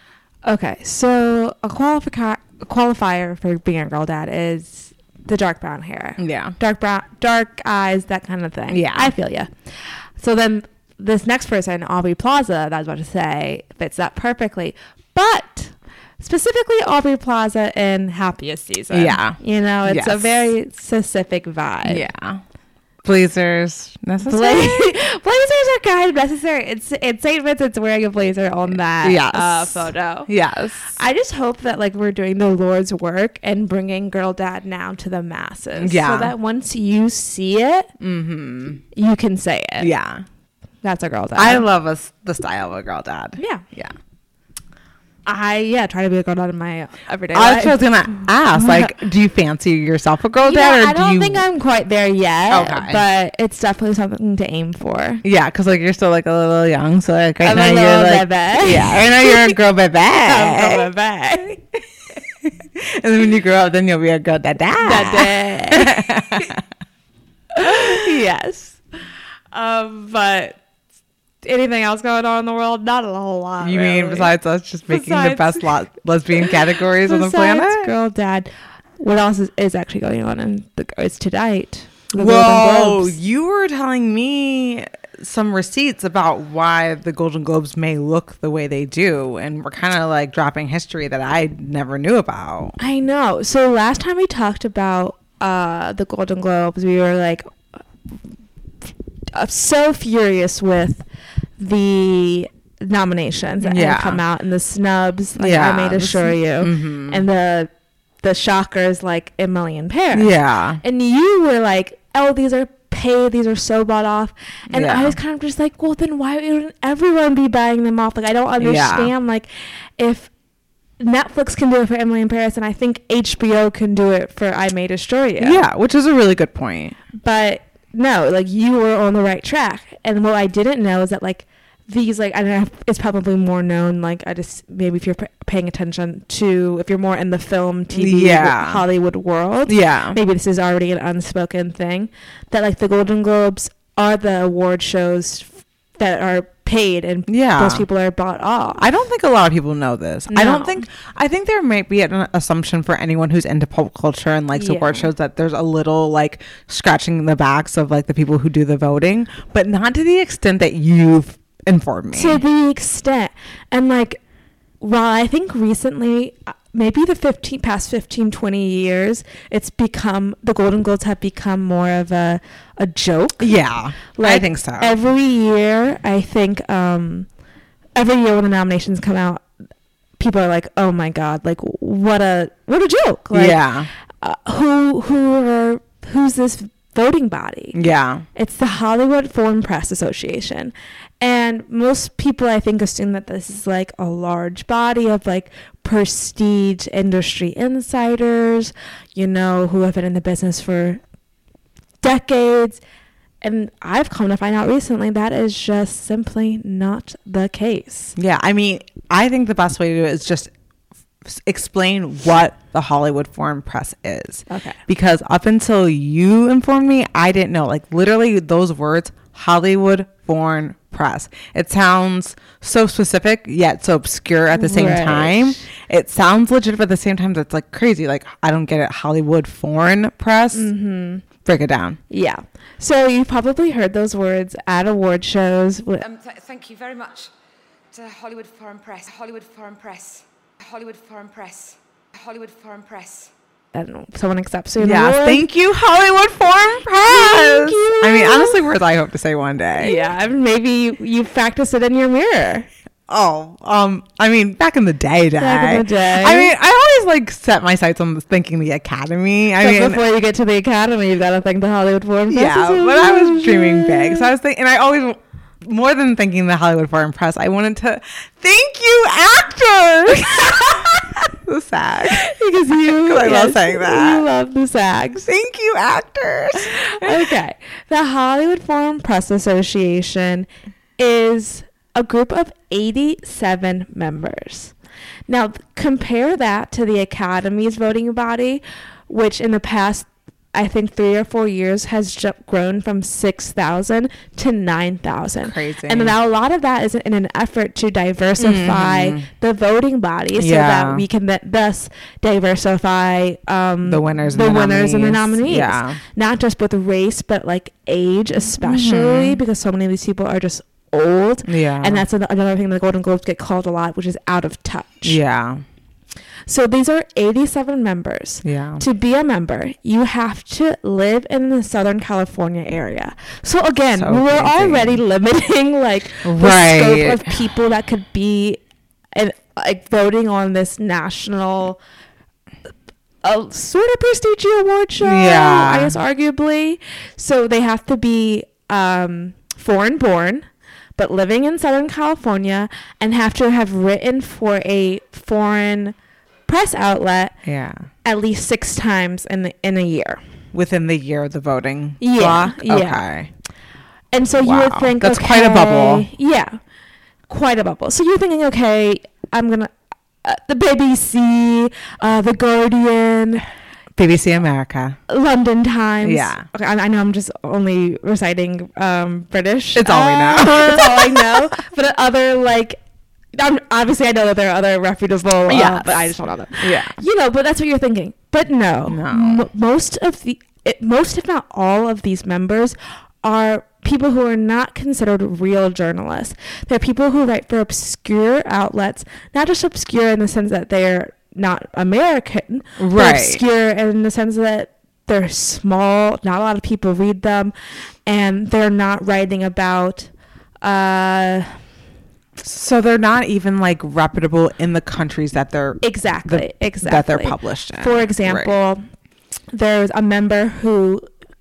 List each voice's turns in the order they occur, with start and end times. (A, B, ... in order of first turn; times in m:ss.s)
0:00.4-0:22.1 A
0:06.2-0:06.6 B
0:08.7-0:09.1 B
0:18.9-0:20.3 B
0:21.8-0:22.4 B
0:23.0-0:24.8 B
0:24.2-0:30.3 A
0:29.0-0:31.0 B
0:30.9-0:37.9 A
0:35.8-0:36.3 B
0:38.0-0:38.8 B
0:38.9-0:39.9 A
0:39.8-0:40.2 B
0:40.8-0:41.6 A
0:41.4-0:43.9 B
0:43.4-0:43.6 A
0:45.3-0:49.0 A
0:47.3-0:51.4 B
0:50.4-0:55.2 A
0:52.5-0:53.0 B
0:55.2-1:00.9 B
0:57.4-0:59.6 A
1:00.2-1:01.6 A
1:02.8-1:06.6 B
1:04.8-1:06.5 A
1:07.5-1:08.8 A
1:09.5-1:10.6 A
1:11.4-1:14.3 A
1:13.6-1:17.9 B
1:14.9-1:15.7 A
1:16.5-1:23.2 A
1:22.2-1:32.8 B
1:32.8-1:37.5 A
1:39.3-1:41.0 A
1:41.6-1:47.7 A
1:43.6-1:44.2 B
1:45.4-1:47.2 B
1:48.2-2:00.3 A
1:50.1-1:50.8 B
1:54.7-1:55.2 B
1:58.6-1:59.1 B
2:01.0-2:05.6 A
2:05.4-2:07.0 B
2:07.2-2:28.8 A
2:18.0-2:18.8 B
2:19.7-2:20.2 B
2:27.3-2:27.8 B
2:28.8-2:42.4 B
2:30.3-2:30.8 A
2:34.6-2:35.1 A
2:42.1-2:44.2 A
2:44.8-2:53.6 A
2:53.4-2:54.9 B
2:54.2-2:57.3 A
2:58.0-2:59.4 A
3:00.2-3:03.6 A
3:03.3-3:03.9 B
3:04.2-3:21.0 A
3:07.7-3:08.2 B
3:22.0-3:22.8 A
3:23.4-3:28.2 A
3:28.2-3:30.5 B
3:31.3-3:50.7 B
3:34.5-3:34.8 A
3:44.5-3:45.6 A
3:50.5-3:51.2 A
3:51.4-3:52.0 B
3:52.1-3:56.0 A
3:56.0-3:57.3 C
3:57.9-4:03.3 C
4:03.7-4:05.5 A
4:04.8-4:10.1 B
4:07.0-4:08.6 A
4:09.8-4:12.7 A
4:13.1-4:20.0 B
4:15.4-4:16.5 A
4:19.6-4:24.3 A
4:22.3-4:32.3 B
4:30.2-4:31.0 A
4:32.1-4:35.3 A
4:32.8-4:34.2 B
4:35.2-4:37.3 B
4:36.6-4:44.7 A
4:45.3-5:15.2 A
4:55.4-4:56.2 B
4:58.4-4:59.3 B
5:00.4-5:01.0 B
5:03.8-5:06.0 B
5:08.6-5:09.4 B
5:11.4-5:12.0 B
5:15.0-5:15.6 B
5:16.5-5:28.6 A
5:18.4-5:18.8 B
5:24.0-5:25.0 B
5:26.2-5:27.4 B
5:29.1-5:31.8 A
5:33.2-5:46.0 A
5:35.0-5:36.0 B
5:46.5-5:47.4 A
5:47.4-5:47.9 B
5:48.0-5:50.2 A
5:50.5-5:53.3 B
5:52.0-5:53.0 A
5:54.1-5:56.6 A
5:54.4-5:56.1 B
5:57.3-6:03.4 A
6:04.0-6:05.0 B
6:05.1-6:12.8 A
6:06.0-6:06.5 B
6:09.8-6:11.4 B
6:13.3-6:37.5 A
6:15.5-6:17.0 B
6:18.9-6:19.4 B
6:32.8-6:33.4 B
6:38.1-6:40.1 A
6:40.6-6:41.6 A
6:42.4-6:48.5 B
6:45.8-6:48.8 A
6:49.5-6:51.0 A